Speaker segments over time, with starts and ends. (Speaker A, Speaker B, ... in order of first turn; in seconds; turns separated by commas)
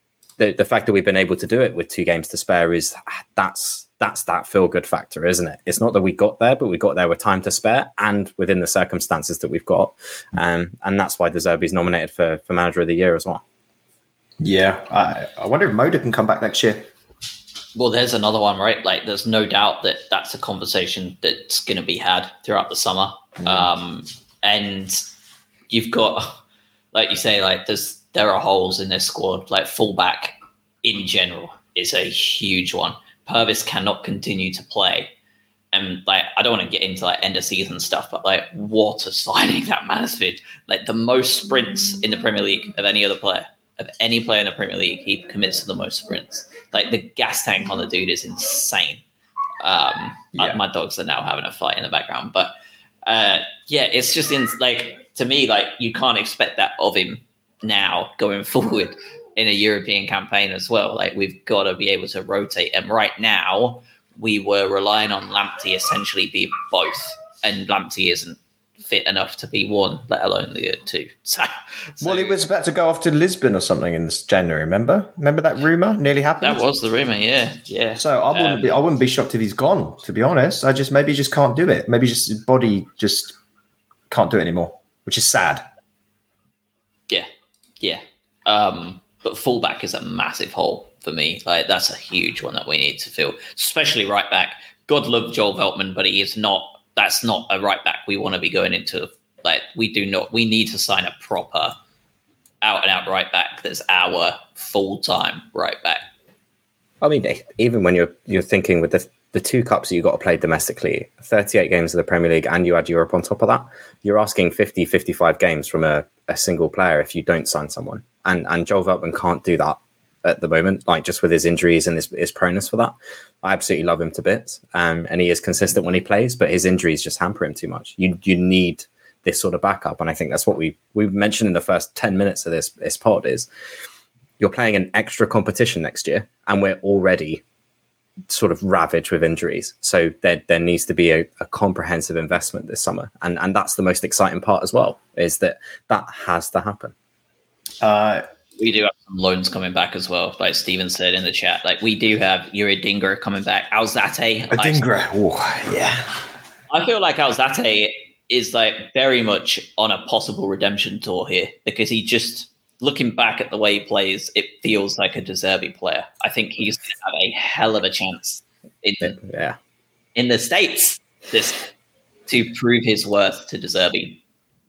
Speaker A: 0.4-13.4, Speaker B: 14.4-16.9, Speaker C: 17.8-25.0, Speaker C: 25.7-26.4, Speaker C: 26.9-35.1, Speaker C: 35.7-49.0, Speaker C: 49.6-52.5, Speaker B: 50.3-50.6, Speaker C: 53.0-72.4, Speaker B: 72.0-76.6, Speaker C: 76.4-78.7, Speaker B: 78.0-83.4, Speaker B: 84.1-85.6, Speaker C: 87.8-101.8, Speaker C: 102.6-106.0, Speaker A: 107.0-133.5, Speaker A: 134.4-137.4, Speaker A: 138.3-146.9, Speaker B: 147.8-148.2, Speaker C: 148.6-154.9, Speaker B: 154.5-156.1, Speaker C: 156.7-169.2, Speaker A: 169.0-169.6, Speaker C: 170.1-171.7, Speaker C: 172.3-174.2